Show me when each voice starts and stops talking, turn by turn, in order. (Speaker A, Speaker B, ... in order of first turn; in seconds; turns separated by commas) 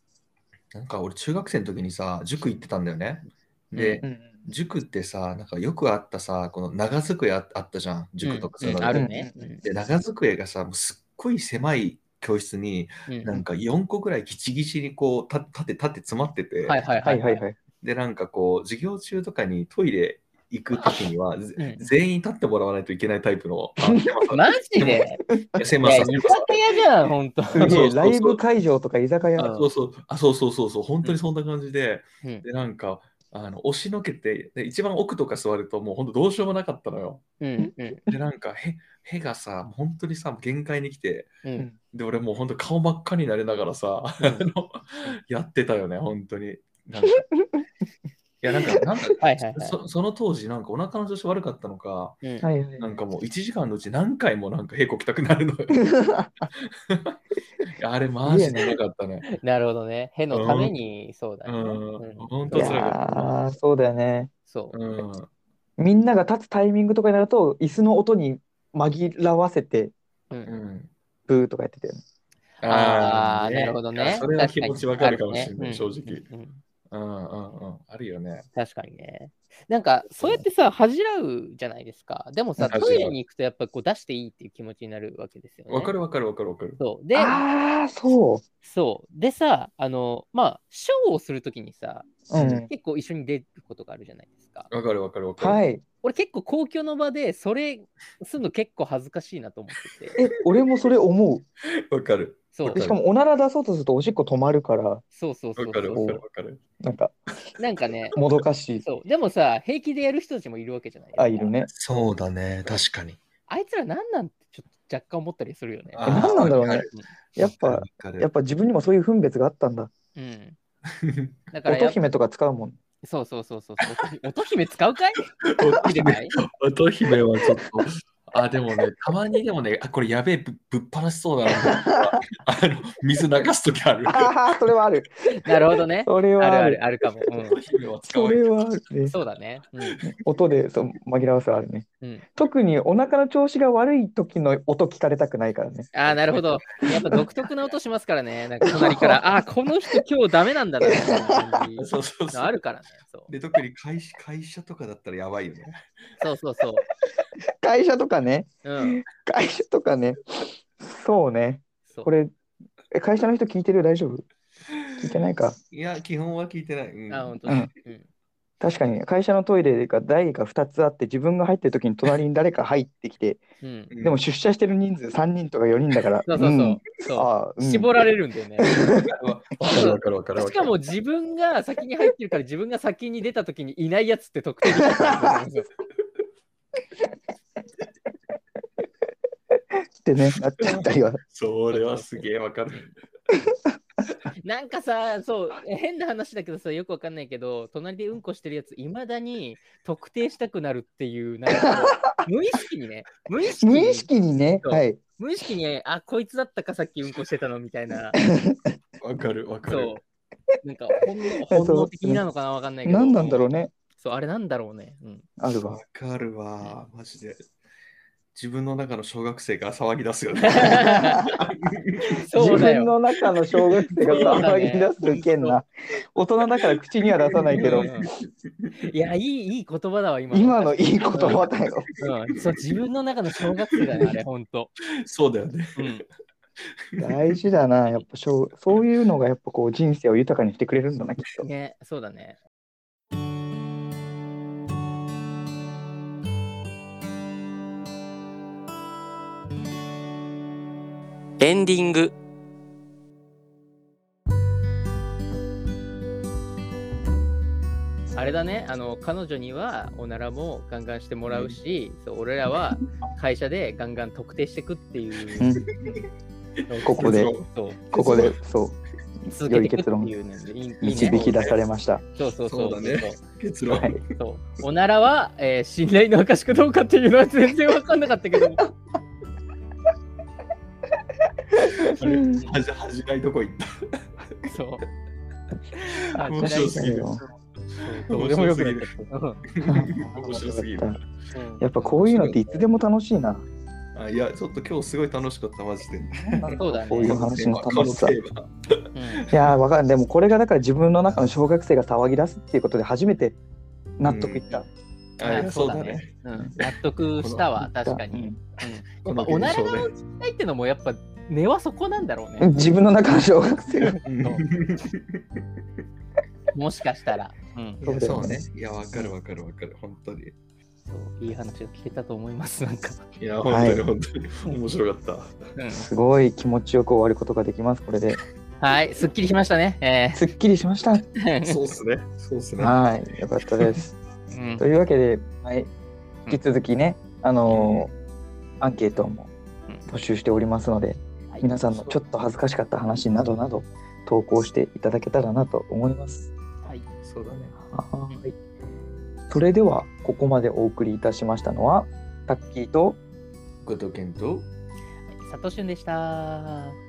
Speaker A: 0.7-9.1, Speaker B: 3.7-4.0, Speaker C: 4.0-4.5, Speaker B: 8.2-9.6, Speaker C: 8.9-9.5, Speaker A: 9.6-16.8, Speaker B: 13.1-13.4, Speaker B: 16.6-17.4, Speaker C: 17.0-17.6, Speaker A: 17.8-25.0, Speaker B: 21.6-21.9, Speaker B: 24.3-25.2, Speaker C: 25.4-26.3, Speaker A: 25.6-26.6, Speaker B: 25.8-27.7, Speaker C: 27.5-29.6, Speaker A: 27.5-28.4, Speaker B: 29.4-29.7, Speaker A: 29.4-37.2, Speaker B: 37.4-38.0, Speaker C: 37.6-38.1, Speaker A: 38.1-41.3, Speaker B: 41.4-41.7, Speaker A: 41.9-47.3, Speaker B: 44.2-44.5, Speaker A: 48.4-52.2, Speaker B: 49.2-49.8, Speaker C: 52.4-52.9, Speaker A: 52.8-56.0, Speaker C: 55.8-56.5, Speaker A: 56.5-57.2, Speaker A: 57.8-59.3, Speaker C: 58.2-58.8, Speaker B: 59.3-62.7, Speaker A: 60.3-60.8, Speaker A: 61.5-63.4, Speaker C: 62.5-64.3, Speaker B: 64.5-64.8, Speaker A: 64.7-65.3, Speaker C: 65.8-69.9, Speaker A: 70.5-70.9, Speaker C: 71.3-72.0, Speaker A: 72.6-76.3, Speaker B: 72.6-76.6, Speaker A: 76.9-78.5, Speaker B: 78.5-86.0, Speaker C: 82.6-82.8, Speaker A: 82.7-83.2, Speaker A: 85.7-86.8, Speaker B: 86.8-87.5, Speaker C: 87.1-88.4, Speaker B: 88.6-94.7, Speaker C: 92.3-92.7, Speaker A: 92.3-92.7, Speaker A: 94.7-95.6, Speaker C: 95.4-95.8, Speaker B: 96.0-100.2, Speaker C: 100.2-101.5, Speaker A: 101.9-103.0, Speaker B: 102.5-102.8, Speaker C: 102.7-105.0, Speaker B: 105.1-106.2, Speaker A: 105.6-106.6, Speaker C: 106.8-107.2, Speaker B: 107.6-108.2, Speaker C: 108.2-108.8, Speaker B: 108.8-111.5, Speaker C: 111.2-111.7, Speaker A: 111.7-113.2, Speaker B: 113.5-116.4, Speaker A: 115.9-118.3, Speaker C: 116.0-119.9, Speaker B: 120.2-120.6, Speaker A: 121.1-121.3, Speaker B: 121.5-122.0, Speaker C: 121.7-122.8, Speaker B: 123.0-126.3, Speaker A: 125.4-134.7, Speaker C: 131.6-131.9, Speaker C: 134.1-136.8, Speaker B: 135.3-137.6, Speaker A: 137.4-138.7, Speaker C: 138.1-139.2, Speaker B: 139.1-140.0, Speaker C: 140.2-145.9, Speaker B: 142.0-142.3, Speaker B: 145.9-153.3, Speaker A: 146.1-146.6, Speaker C: 146.8-147.2, Speaker C: 148.7-149.2, Speaker C: 150.8-151.2, Speaker A: 151.8-152.5, Speaker A: 153.3-155.8, Speaker B: 156.2-156.8, Speaker C: 157.6-162.3, Speaker B: 158.6-159.0, Speaker C: 162.9-164.2, Speaker C: 165.0-165.6, Speaker A: 165.7-167.7, Speaker B: 167.1-168.1, Speaker C: 168.6-173.4, Speaker B: 173.6-173.9, Speaker A: 173.9-174.2, Speaker C: 174.0-177.9, Speaker B: 176.3-178.7, Speaker C: 178.6-179.0, Speaker A: 178.7-180.7, Speaker B: 179.7-185.7, Speaker C: 179.7-180.0, Speaker C: 190.0-191.2, Speaker A: 190.8-192.9, Speaker B: 191.7-192.9, Speaker B: 194.4-204.1, Speaker C: 201.5-202.2, Speaker C: 203.6-205.0, Speaker B: 204.6-208.2, Speaker C: 208.4-208.8, Speaker A: 209.0-210.0, Speaker B: 209.7-210.0, Speaker B: 210.6-215.3, Speaker C: 211.5-212.2, Speaker C: 212.8-213.7, Speaker C: 215.4-215.8, Speaker A: 215.7-217.5, Speaker A: 218.3-222.6, Speaker B: 220.4-221.2, Speaker C: 220.8-221.4, Speaker B: 222.2-222.9, Speaker C: 222.3-227.9, Speaker A: 224.0-224.5, Speaker B: 224.1-225.6, Speaker A: 227.2-228.7, Speaker B: 227.6-228.1, Speaker B: 228.8-231.4, Speaker C: 230.3-231.9, Speaker A: 231.2-232.0, Speaker B: 232.0-234.7, Speaker A: 235.1-235.9, Speaker B: 235.8-236.0, Speaker A: 236.9-237.4, Speaker C: 237.0-241.5, Speaker B: 241.4-242.4, Speaker B: 251.4-252.1, Speaker B: 258.1-265.5, Speaker A: 261.3-261.6, Speaker C: 265.4-266.1, Speaker A: 266.6-268.4, Speaker B: 266.7-267.9, Speaker C: 266.8-267.3, Speaker C: 267.9-270.1, Speaker B: 269.3-271.2, Speaker C: 270.8-272.0, Speaker A: 271.1-271.6, Speaker B: 272.2-273.2, Speaker A: 272.5-274.1, Speaker C: 273.7-274.0, Speaker B: 274.2-278.6, Speaker C: 281.6-282.5, Speaker A: 281.8-283.6, Speaker B: 284.5-284.8, Speaker A: 285.9-287.2, Speaker B: 286.1-287.1, Speaker C: 286.4-287.2, Speaker B: 287.8-289.4, Speaker A: 288.1-291.0, Speaker C: 289.7-291.0, Speaker B: 291.3-291.7, Speaker C: 291.6-293.4, Speaker A: 291.8-292.6, Speaker A: 293.9-299.6, Speaker C: 296.3-298.2, Speaker B: 296.5-297.2, Speaker B: 298.9-299.3, Speaker C: 299.3-303.4, Speaker C: 304.0-304.7, Speaker A: 304.0-304.5, Speaker A: 305.2-307.5, Speaker B: 305.2-312.5, Speaker C: 307.8-308.4, Speaker A: 309.1-309.9, Speaker C: 312.4-314.0, Speaker B: 313.8-314.4, Speaker A: 314.1-315.2, Speaker B: 316.5-317.8, Speaker A: 317.8-320.4, Speaker C: 317.8-318.4, Speaker B: 320.9-323.1, Speaker A: 323.2-325.3, Speaker C: 323.5-323.8, Speaker B: 325.6-325.9, Speaker C: 325.7-328.2, Speaker B: 328.6-330.3, Speaker C: 330.1-331.0, Speaker B: 331.2-331.6, Speaker A: 331.4-332.8, Speaker C: 332.6-333.9, Speaker B: 334.3-334.6, Speaker C: 334.6-335.7, Speaker C: 336.3-337.9, Speaker A: 337.5-337.9, Speaker C: 338.6-339.3, Speaker C: 339.9-346.3, Speaker A: 347.0-347.6, Speaker C: 347.7-348.3, Speaker C: 349.3-353.0, Speaker A: 353.6-354.5, Speaker B: 355.1-356.8